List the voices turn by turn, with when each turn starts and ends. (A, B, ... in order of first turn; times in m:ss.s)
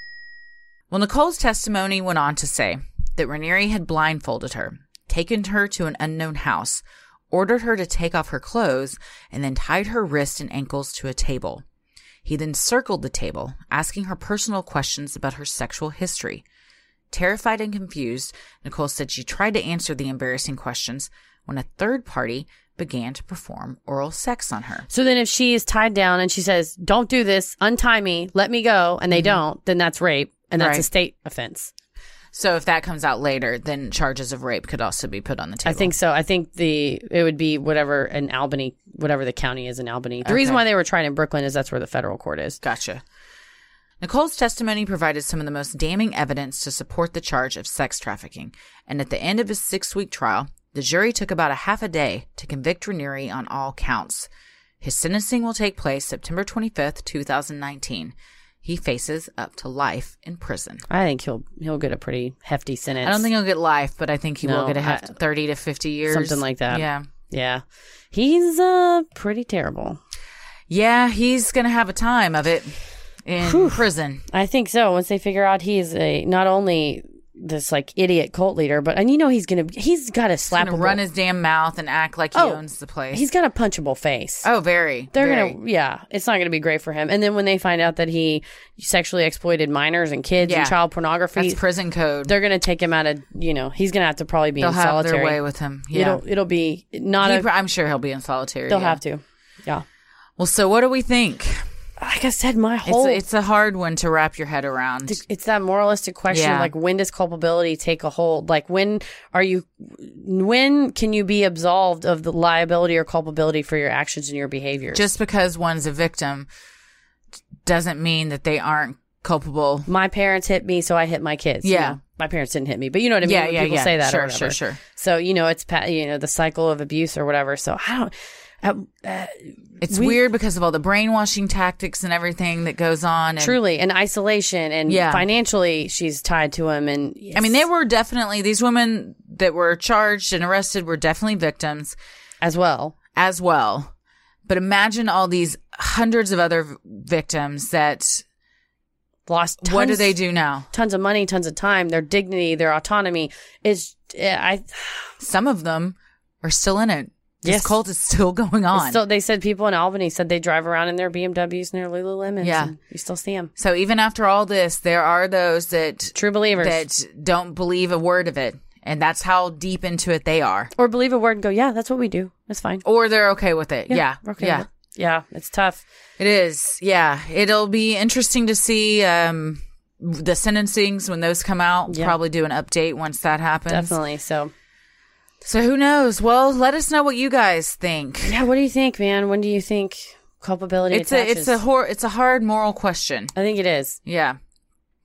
0:00.9-0:11.6 A
0:12.2-0:16.4 A
0:17.1-0:24.8 A
0:24.9-0:31.7 B
0:29.1-0:29.4 A
0:30.6-0:30.8 A
0:32.3-0:35.9 A
0:35.6-0:42.6 B
0:40.2-0:40.6 A
0:42.6-0:43.0 A
0:44.0-0:54.3 A
0:54.8-1:00.8 A
1:00.9-1:03.3 B
1:03.0-1:07.1 A
1:04.4-1:05.1 B
1:06.1-1:10.0 B
1:10.7-1:14.2 A
1:13.4-1:21.0 B
1:20.5-1:23.2 A
1:22.3-1:24.5 B
1:24.4-1:25.5 A
1:25.1-1:31.6 B
1:30.4-1:30.7 A
1:31.4-1:32.3 A
1:32.2-1:35.4 B
1:34.6-1:36.2 A
1:35.9-1:37.4 B
1:37.2-1:39.0 A
1:38.7-1:39.8 B
1:40.4-1:41.6 A
1:42.0-1:43.2 B
1:42.8-1:45.2 A
1:45.1-1:55.0 B
1:46.3-1:46.7 A
1:54.9-1:56.5 A
1:57.6-1:59.9 A
1:59.9-2:10.2 B
2:01.6-2:02.0 A
2:03.2-2:04.8 A
2:09.8-2:13.6 A
2:13.4-2:17.6 B
2:14.9-2:15.2 A
2:17.3-2:22.0 A
2:22.4-2:22.9 B
2:23.1-2:23.9 A
2:24.4-2:28.2 A
2:29.3-2:30.2 B
2:29.6-2:30.7 A
2:30.7-2:35.1 B
2:35.2-2:39.0 A
2:37.4-2:37.8 B
2:38.7-2:43.5 B
2:42.4-2:42.7 A
2:43.6-2:50.7 A
2:46.1-2:46.8 B
2:50.8-2:52.8 B
2:52.8-2:54.6 A
2:53.9-2:55.8 B
2:56.2-3:03.9 A
3:01.9-3:02.1 B
3:03.7-3:04.5 B
3:05.4-3:08.4 A
3:08.2-3:11.6 B
3:10.9-3:13.3 A
3:13.3-3:14.0 B
3:14.0-3:14.4 A